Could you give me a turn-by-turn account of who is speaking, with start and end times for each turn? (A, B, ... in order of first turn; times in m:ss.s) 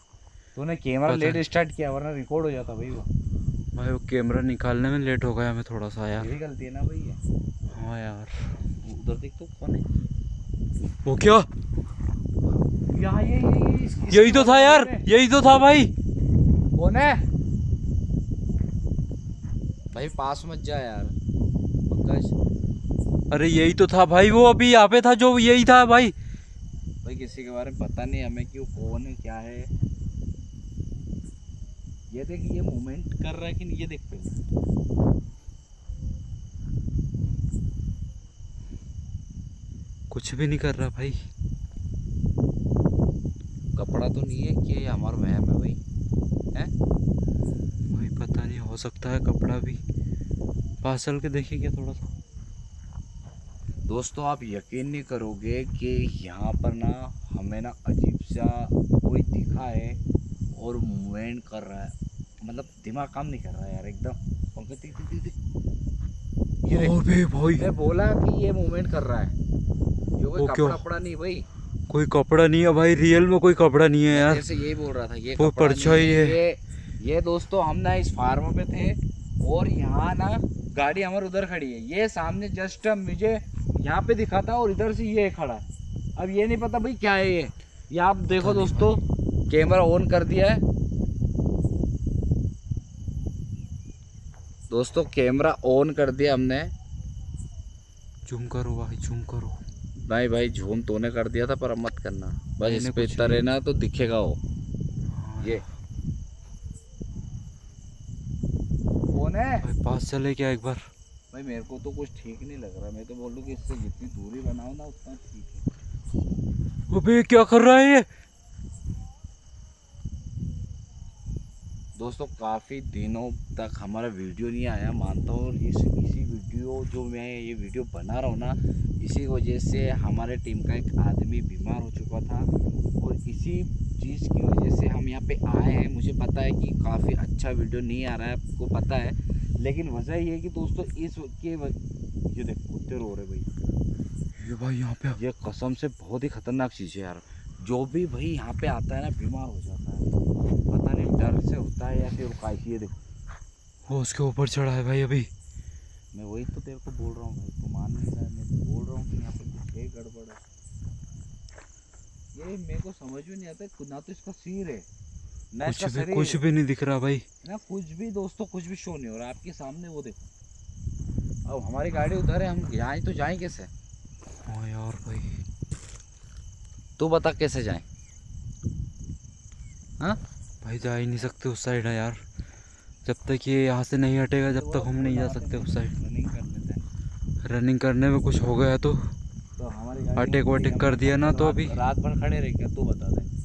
0:00.5-0:03.1 A
0:01.0-0:01.4 B
0:03.7-0:06.3 B
0:06.2-0:07.2 A
0:07.7-0:08.4 B
0:08.8-0:09.9 A
0:11.0-0:11.5 B
0:12.9-0:15.0 A
0:14.1-0:15.9 B
0:16.7-0:17.2 A
0:19.9-0:21.1 A
0:21.9-0:22.3 A
0:23.3-0:26.1 B
0:27.0-0:29.7 A
0:32.1-0:34.4 A
0:40.1-0:41.2 B
0:43.8-0:45.8 A
0:47.8-0:49.8 B
0:50.8-0:52.0 B
0:53.9-1:00.0 A
1:00.5-1:05.3 A
1:06.6-1:07.0 A
1:06.7-1:07.6 B
1:07.5-1:09.3 A
1:10.2-1:11.4 A
1:10.4-1:10.8 B
1:11.9-1:14.4 B
1:14.1-1:25.6 A
1:15.4-1:16.4 B
1:26.2-1:30.6 A
1:28.4-1:29.0 B
1:34.7-1:36.7 A
1:38.2-1:39.6 B
1:40.1-1:44.4 A
1:42.6-1:43.4 B
1:45.1-1:45.6 B
1:49.1-1:49.6 A
1:49.6-1:50.8 B
1:51.3-1:55.6 A
1:56.9-1:58.0 B
2:02.0-2:23.5 A
2:24.4-2:25.2 B
2:25.1-2:30.0 A
2:30.7-2:33.0 A
2:33.8-2:35.3 B
2:36.1-2:40.4 A
2:42.3-2:44.8 A
2:45.5-2:46.4 A
2:45.6-2:47.2 B
2:47.4-2:50.3 A
2:51.4-2:53.7 A
2:54.4-2:55.4 B
2:57.0-2:57.8 A
3:00.6-3:02.2 B
3:03.0-3:05.9 B
3:04.4-3:06.8 A
3:07.4-3:09.1 B
3:09.6-3:13.3 A
3:10.2-3:11.7 B